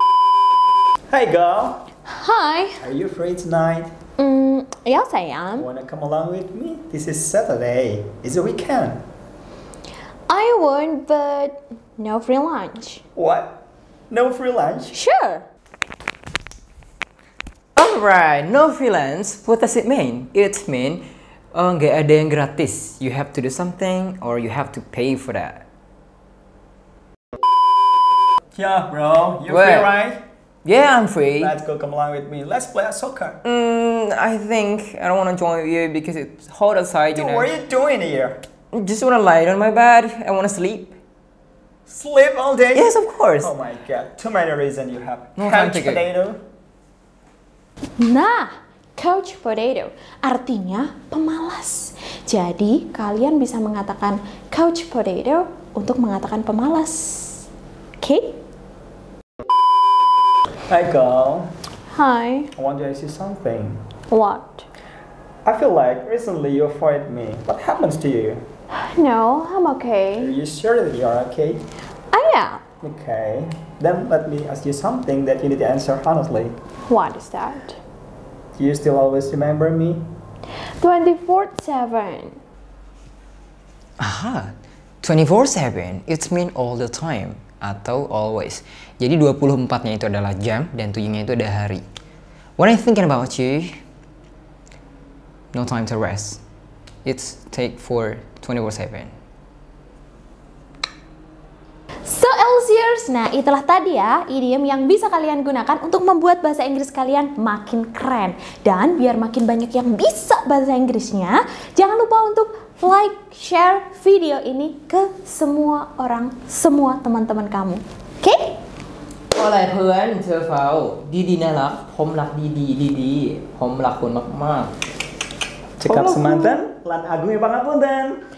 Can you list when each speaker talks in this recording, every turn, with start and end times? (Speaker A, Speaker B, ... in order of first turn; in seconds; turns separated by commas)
Speaker A: 1.1-1.8, Speaker B: 2.1-2.8, Speaker A: 2.8-3.9, Speaker B: 4.2-5.7, Speaker A: 5.6-9.0, Speaker B: 10.3-13.0, Speaker A: 13.1-13.6, Speaker A: 14.1-14.9, Speaker B: 14.9-15.4, Speaker C: 17.8-25.6, Speaker A: 28.5-30.2, Speaker C: 29.4-29.9, Speaker C: 30.6-31.5, Speaker A: 31.3-33.4, Speaker C: 33.4-37.5, Speaker A: 37.1-38.4, Speaker C: 38.7-41.0, Speaker A: 41.9-46.4, Speaker C: 42.7-43.5, Speaker C: 45.4-46.0, Speaker B: 48.0-57.5, Speaker B: 58.0-58.4, Speaker A: 60.7-61.5, Speaker B: 61.9-62.5, Speaker A: 62.5-63.8, Speaker B: 64.1-64.7, Speaker A: 65.4-68.4, Speaker B: 68.7-70.3, Speaker A: 70.2-71.6, Speaker B: 72.1-72.6, Speaker A: 72.8-76.5, Speaker B: 76.9-77.8, Speaker A: 78.5-80.0, Speaker B: 80.8-82.4, Speaker C: 84.0-91.8, Speaker C: 92.6-93.7, Speaker C: 95.5-96.4, Speaker C: 97.0-99.1, Speaker B: 102.0-118.6, Speaker C: 119.3-124.7, Speaker A: 125.8-128.2, Speaker B: 126.0-126.6